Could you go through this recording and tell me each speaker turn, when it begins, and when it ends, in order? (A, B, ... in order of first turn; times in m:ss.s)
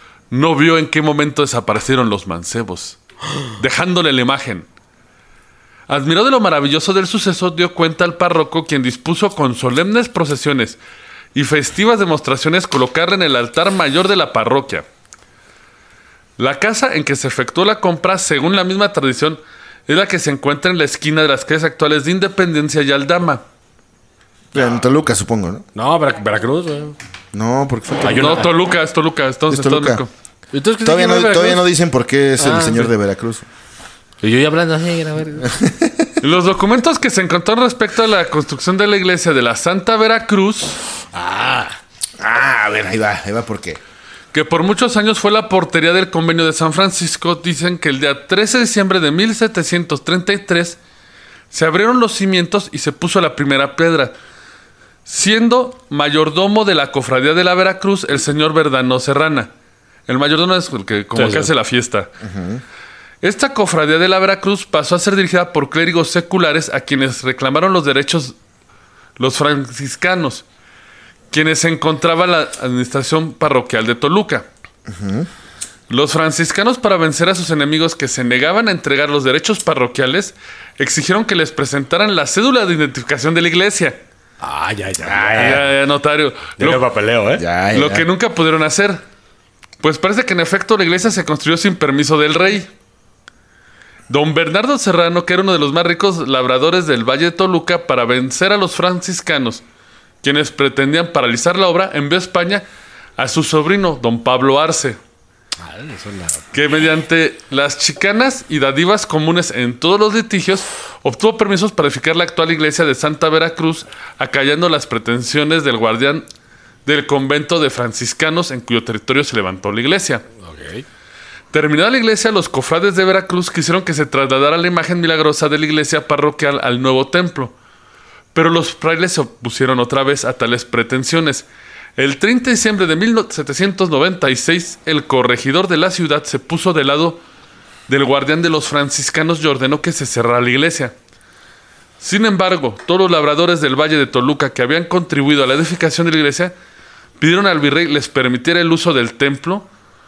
0:00.3-0:04.7 A
0:05.9-0:10.8 A
0:11.3-0:14.8 A
0:16.4-0:23.4 A
0:24.5-0:25.6 B
0:25.7-0:27.0 C
0:27.3-0:28.4 B
0:28.0-0:28.5 C
0:28.0-0:30.1 A
0:29.5-0:30.0 B
0:30.5-0:31.6 C
0:30.8-0:33.4 B
0:32.4-0:32.9 C
0:34.2-0:35.5 C
0:35.4-0:36.1 B
0:36.2-0:40.8 A
0:41.1-0:41.8 C
0:42.2-0:43.8 B
0:44.3-0:50.8 A
0:51.5-0:54.1 A
0:55.0-0:59.5 A
1:00.1-1:02.1 A
1:01.1-1:01.5 C
1:02.2-1:02.6 B
1:03.2-1:08.3 A
1:09.2-1:10.4 A
1:11.3-1:14.4 A
1:14.9-1:15.3 B
1:15.9-1:24.0 A
1:24.4-1:25.7 C
1:25.1-1:25.6 B
1:25.4-1:26.8 A
1:26.6-1:27.4 C
1:27.4-1:28.1 B
1:27.7-1:29.0 A
1:29.8-1:32.7 A
1:34.1-1:39.6 A
1:40.2-1:42.6 A
1:43.2-1:45.0 A
1:45.6-1:46.5 C
1:46.5-1:56.2 A
1:56.8-2:00.2 A
2:00.4-2:00.8 C
2:01.5-2:07.5 A
2:08.3-2:17.2 A
2:17.9-2:20.9 A
2:22.0-2:26.5 A
2:27.2-2:29.7 A